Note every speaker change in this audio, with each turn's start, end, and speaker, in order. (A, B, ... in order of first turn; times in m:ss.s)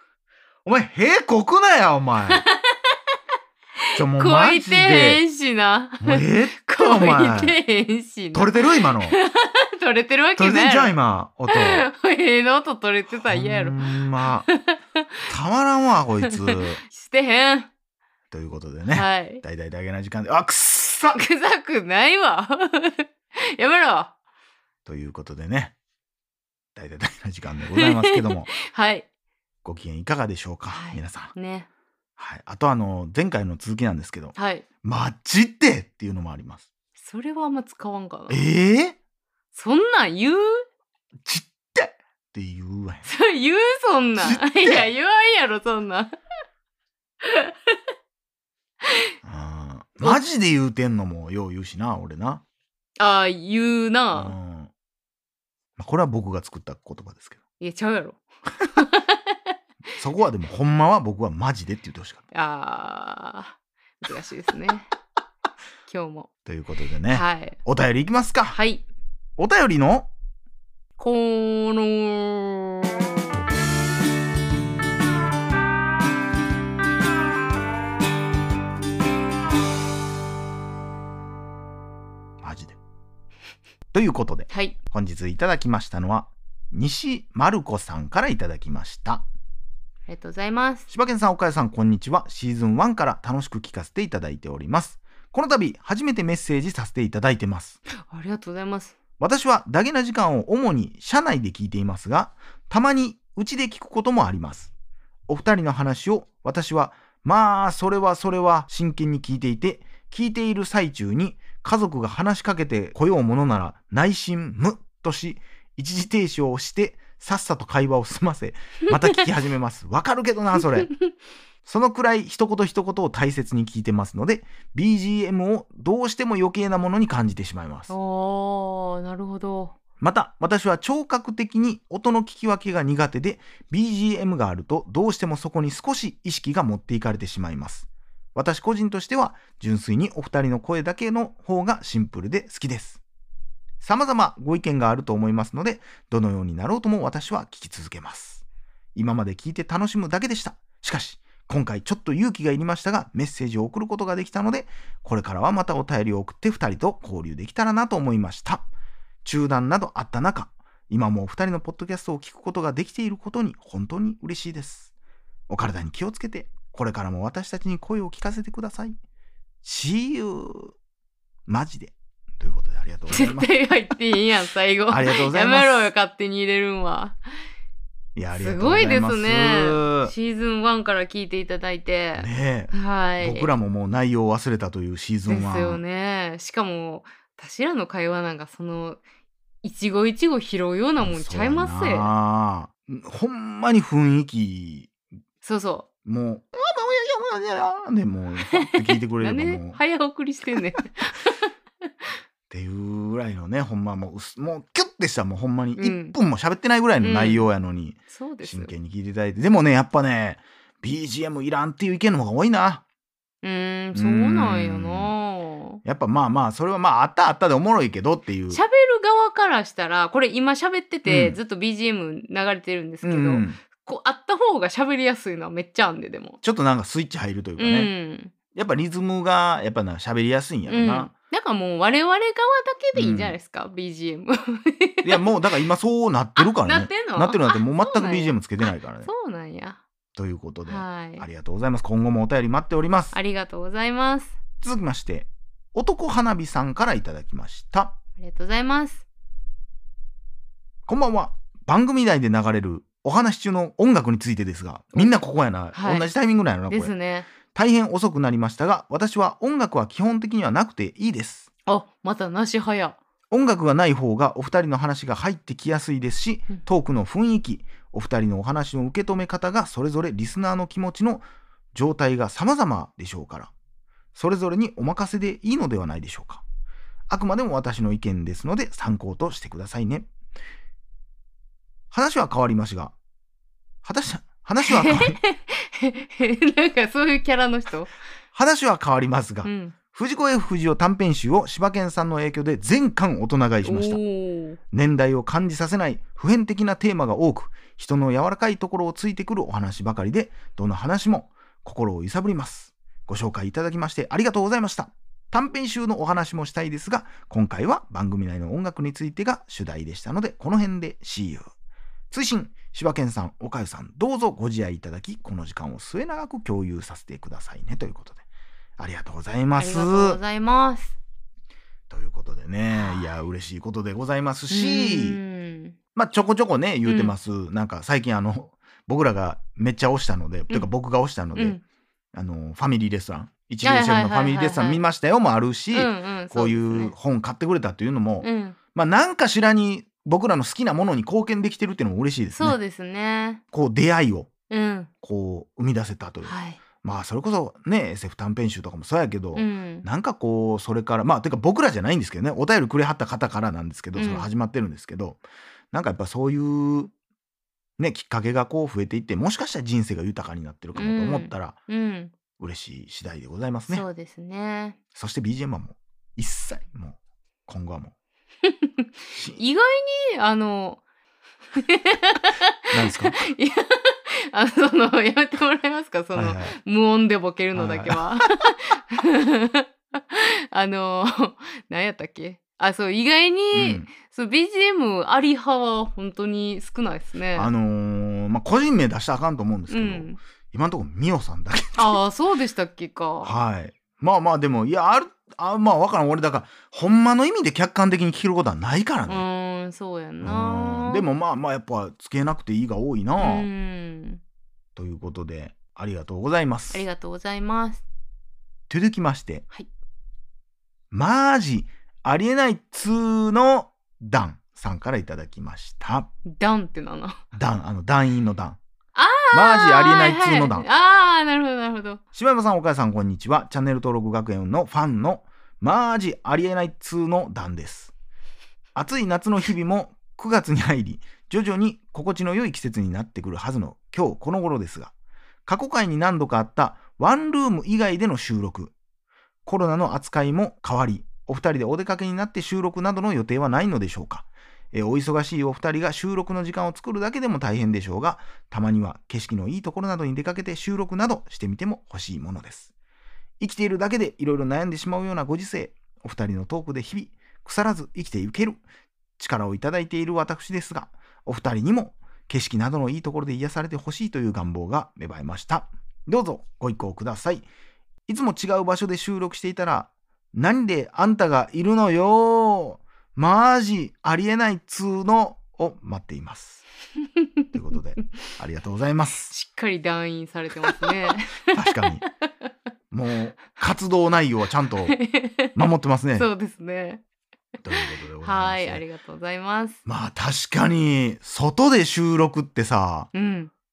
0:00.6-0:02.4 A
0:02.3-0:03.0 B
0:03.8-0:11.0 B
0:04.0-0:05.2 A
0:06.0-0:07.6 A
0:08.3-0:09.2 A
0:10.4-0:11.9 A
0:11.5-0:15.1 B
0:13.1-0:14.5 A
0:15.3-0:16.8 A
0:16.2-0:17.7 B
0:18.3-0:21.2 A
0:18.9-0:19.4 B
0:21.1-0:24.1 B
0:24.9-0:25.8 A
0:26.8-0:28.5 A
0:27.8-0:29.1 B
0:29.6-0:31.3 A
0:30.7-0:31.7 B
0:32.2-0:36.7 A
0:34.4-0:34.7 B
0:37.0-0:38.4 B
0:38.3-0:39.0 A
0:39.5-0:40.6 B
0:41.2-0:43.1 A
0:43.0-0:46.2 B
0:44.2-0:44.9 A
0:47.2-0:47.8 B
0:49.2-0:52.4 A
0:53.0-0:54.3 B
0:54.1-0:54.7 A
0:55.8-0:57.4 A
0:57.6-0:59.6 B
1:00.0-1:02.2 A
1:02.3-1:04.9 B
1:05.9-1:06.3 B
1:06.5-1:08.6 A
1:07.1-1:07.6 B
1:08.5-1:08.8 B
1:09.4-1:10.1 A
1:11.0-1:13.4 B
1:22.4-1:22.8 A
1:23.9-1:29.3 A
1:24.5-1:24.8 B
1:30.1-1:30.9 B
1:30.9-1:37.8 A
1:38.0-1:39.0 B
1:39.2-1:44.7 A
1:45.3-2:00.9 A
2:00.6-2:01.1 B
2:01.6-2:07.9 A
2:07.9-2:09.8 B
2:10.0-2:23.0 A
2:23.8-2:28.4 A
2:29.0-2:38.7 A
2:39.2-2:44.9 A
2:45.5-2:49.0 A
2:49.6-2:50.8 A
2:51.5-2:53.5 A
2:53.1-2:57.2 B
2:54.9-2:55.9 A
2:58.2-3:00.1 A
2:58.3-3:03.5 B
3:02.2-3:05.8 A
3:05.3-3:09.0 B
3:09.6-3:12.1 B
3:11.0-3:14.9 A
3:15.4-3:15.9 B
3:16.0-3:19.8 A
3:18.5-3:22.1 B
3:22.5-3:32.8 A
3:25.8-3:26.2 B
3:27.0-3:27.5 B
3:28.1-3:28.7 B
3:33.4-3:35.8 B
3:33.9-3:35.1 A
3:35.8-3:38.6 A
3:38.5-3:46.4 B
3:41.0-3:41.4 A
3:43.0-3:43.6 A
3:46.4-3:47.9 A
3:47.6-3:48.3 B
3:48.5-3:51.1 A
3:50.7-3:55.3 B
3:52.9-3:53.4 A
3:55.0-3:59.1 A
3:56.4-3:59.8 B
4:00.2-4:03.2 A
4:00.7-4:01.3 B
4:03.1-4:04.4 B
4:04.6-4:08.0 A
4:08.2-4:09.0 B
4:10.9-4:16.9 A
4:15.7-4:16.1 B
4:16.7-4:17.3 B
4:17.5-4:21.5 A
4:21.7-4:23.0 B
4:23.3-4:33.5 A
4:34.2-4:36.4 A
4:37.1-4:40.1 A
4:41.9-4:42.9 A
4:43.8-4:45.2 A
4:44.6-4:48.0 B
4:48.3-4:54.0 A
4:49.4-4:49.8 B
4:53.6-4:54.6 B
4:54.7-5:11.5 A
5:12.1-5:18.2 A
5:18.8-5:20.2 A
5:19.6-5:21.0 B
5:21.9-5:25.2 A
5:22.7-5:23.1 B
5:24.5-5:25.8 B
5:26.0-5:31.6 A
5:26.9-5:27.1 B
5:31.4-5:31.6 B
5:32.1-5:42.6 A
5:33.6-5:34.8 B
5:35.7-5:36.9 B
5:38.2-5:38.6 B
5:42.4-5:43.4 B
5:43.5-5:44.3 A
5:44.5-5:44.9 B
5:45.0-5:56.9 A
5:46.2-5:46.6 B
5:49.4-5:49.9 B
5:54.0-5:54.3 B
5:57.8-6:01.6 A
6:00.8-6:02.1 B
6:02.4-6:03.9 A
6:03.7-6:04.8 B
6:05.0-6:07.9 A
6:08.5-6:10.8 B
6:09.1-6:09.4 A
6:11.6-6:27.5 B
6:12.7-6:13.3 A
6:16.2-6:16.6 A
6:17.5-6:18.4 A
6:23.5-6:23.9 A
6:27.4-6:32.0 A
6:29.7-6:30.2 B
6:31.8-6:33.3 B
6:33.2-6:39.3 A
6:39.1-6:41.1 B
6:40.2-6:43.5 A
6:43.2-6:44.2 B
6:44.8-6:46.8 A
6:46.7-6:47.8 B
6:48.7-6:49.4 A
6:50.9-6:56.1 A
6:56.3-6:57.2 B
6:57.3-6:58.6 A
6:59.0-7:02.0 B
6:59.3-7:00.7 A
7:02.2-7:07.9 A
7:08.8-7:14.9 A
7:15.5-7:18.7 A
7:19.5-7:32.7 A
7:33.4-7:38.6 A
7:39.2-7:47.5 A
7:48.1-7:56.6 A
7:57.2-7:57.5 B
7:57.5-7:59.3 A
7:59.3-8:01.5 B
8:00.8-8:02.0 A
8:02.9-8:05.0 A
8:04.9-8:05.5 B
8:05.6-8:06.3 A
8:06.2-8:07.0 B
8:07.6-8:08.8 A
8:07.7-8:09.8 B
8:09.9-8:13.1 A
8:13.1-8:13.5 B